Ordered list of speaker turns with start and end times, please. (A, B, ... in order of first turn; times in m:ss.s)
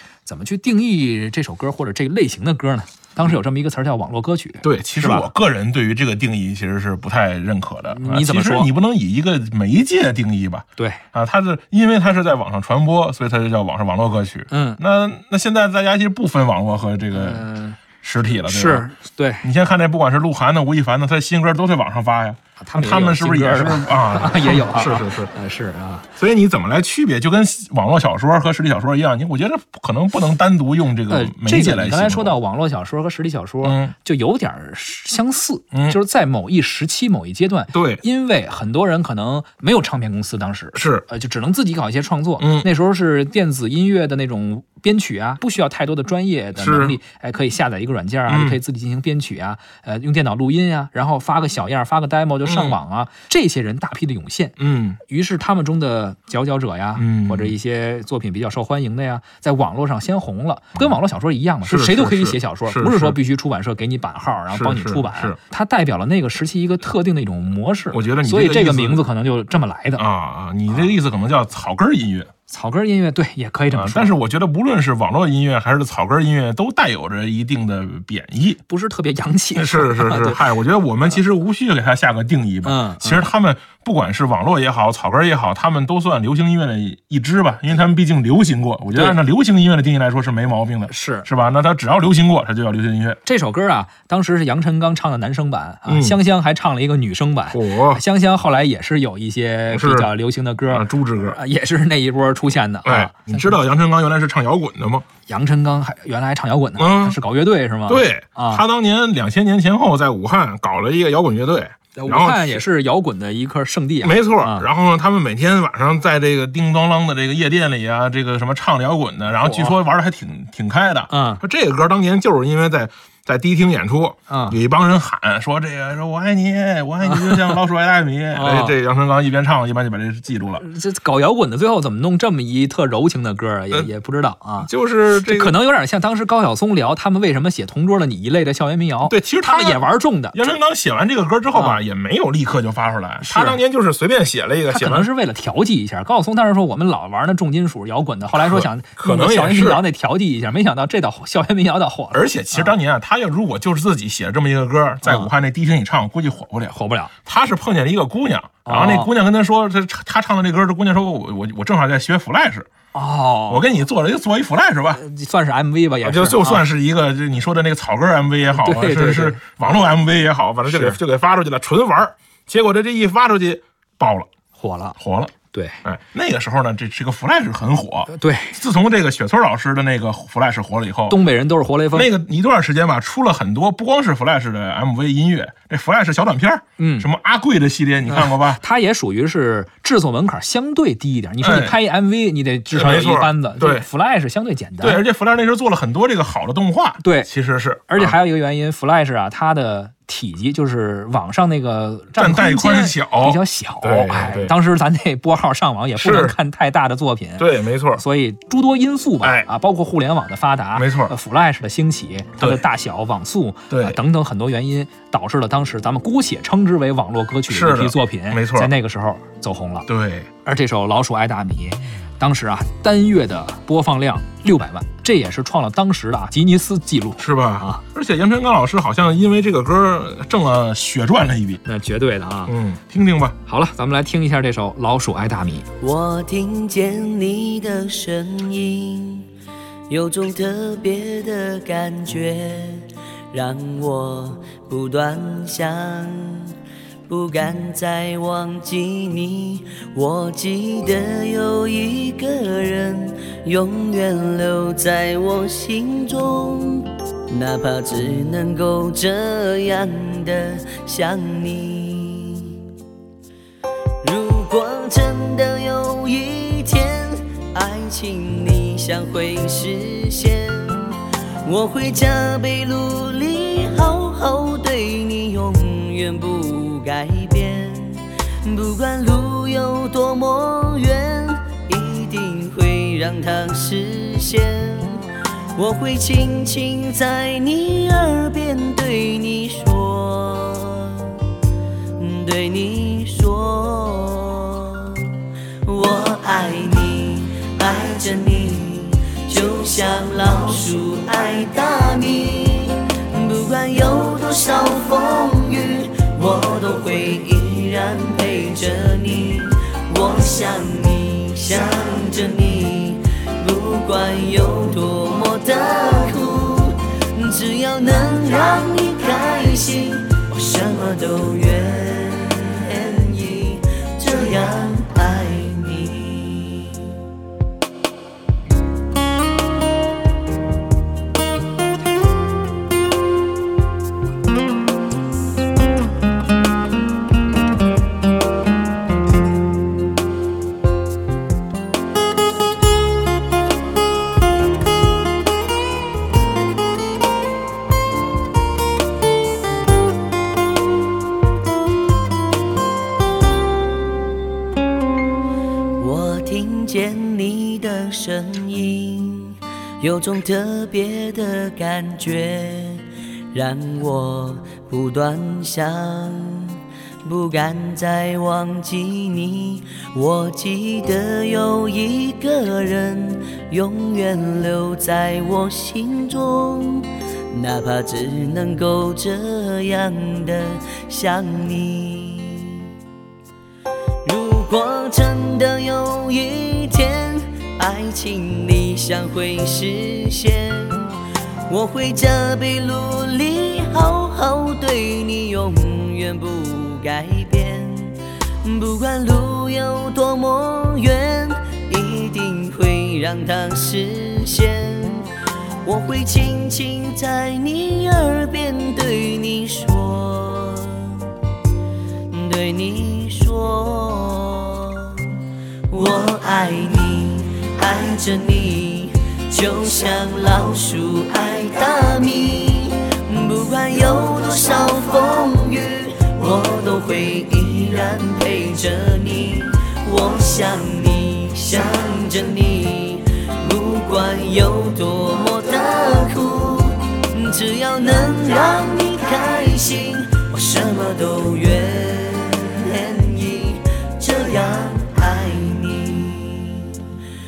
0:00.2-0:05.3 A
0:04.6-0:17.4 B
0:07.9-0:08.7 A
0:10.8-0:11.0 A
0:14.5-0:14.8 A
0:17.1-0:17.8 A
0:18.0-0:18.9 B
0:18.4-0:19.5 A
0:19.4-0:25.3 B
0:22.6-0:26.1 A
0:26.2-0:32.4 B
0:31.1-1:10.0 A
0:33.6-0:33.9 B
0:35.7-0:36.0 B
0:37.7-0:38.0 B
0:40.7-0:41.0 B
0:42.4-0:42.7 B
0:46.6-0:47.0 B
0:48.3-0:48.6 B
0:52.4-0:52.8 B
0:54.6-0:55.0 B
0:57.0-0:57.5 B
1:01.6-1:03.2 B
1:04.5-1:05.4 B
1:07.9-1:09.0 B
1:10.0-1:12.3 B
1:12.5-1:14.1 A
1:13.7-1:18.6 B
1:18.7-1:20.5 A
1:19.5-1:33.2 B
1:22.6-1:23.3 A
1:28.9-1:29.2 A
1:30.9-1:31.3 A
1:33.2-1:43.6 A
1:35.9-1:36.2 B
1:37.5-1:38.0 B
1:39.7-1:40.1 B
1:40.7-1:41.4 B
1:42.8-1:45.0 B
1:45.3-1:48.6 A
1:46.8-1:47.2 B
1:47.9-1:52.6 B
1:52.0-1:54.7 A
1:54.0-2:10.6 B
1:59.4-1:59.8 A
2:01.1-2:01.4 A
2:04.3-2:04.6 A
2:07.1-2:07.5 A
2:08.3-2:08.8 A
2:10.6-2:14.7 A
2:14.6-2:15.6 B
2:15.2-2:20.4 A
2:19.1-2:25.1 B
2:21.5-2:21.8 A
2:23.2-2:23.6 A
2:24.7-2:32.7 A
2:28.3-2:29.8 B
2:32.1-2:42.7 B
2:35.0-2:35.3 A
2:36.7-2:37.1 A
2:38.6-2:39.1 A
2:42.9-2:43.6 A
2:43.5-2:45.0 B
2:44.9-2:46.7 A
2:46.0-2:54.3 B
2:48.5-2:49.4 A
2:50.7-2:51.0 A
2:54.6-2:55.0 A
2:55.0-3:01.2 B
2:55.5-2:55.8 A
2:58.1-2:58.6 A
3:01.1-3:02.1 A
3:01.9-3:08.6 B
3:06.8-3:07.1 A
3:08.1-3:15.0 A
3:11.4-3:11.8 B
3:12.7-3:13.8 B
3:14.8-3:18.1 B
3:17.0-3:17.3 A
3:17.9-3:39.9 A
3:22.2-3:24.5 B
3:26.0-3:26.4 B
3:27.4-3:28.0 B
3:29.2-3:29.5 B
3:30.7-3:31.1 B
3:32.4-3:32.6 B
3:33.7-3:34.0 B
3:37.5-3:38.7 B
3:39.9-3:40.3 B
3:40.4-3:47.8 A
3:47.2-3:51.6 B
3:51.6-3:52.5 A
3:52.5-3:53.4 B
3:53.4-3:55.6 A
3:55.8-3:59.3 C
3:59.9-4:06.6 C
4:07.1-4:22.6 C
4:24.0-4:45.0 C
4:45.6-4:51.2 C
4:52.0-5:26.9 C
5:55.8-6:22.7 C
6:24.0-6:30.9 C
6:31.5-6:45.1 C
6:45.6-6:51.1 C
6:52.1-7:26.8 C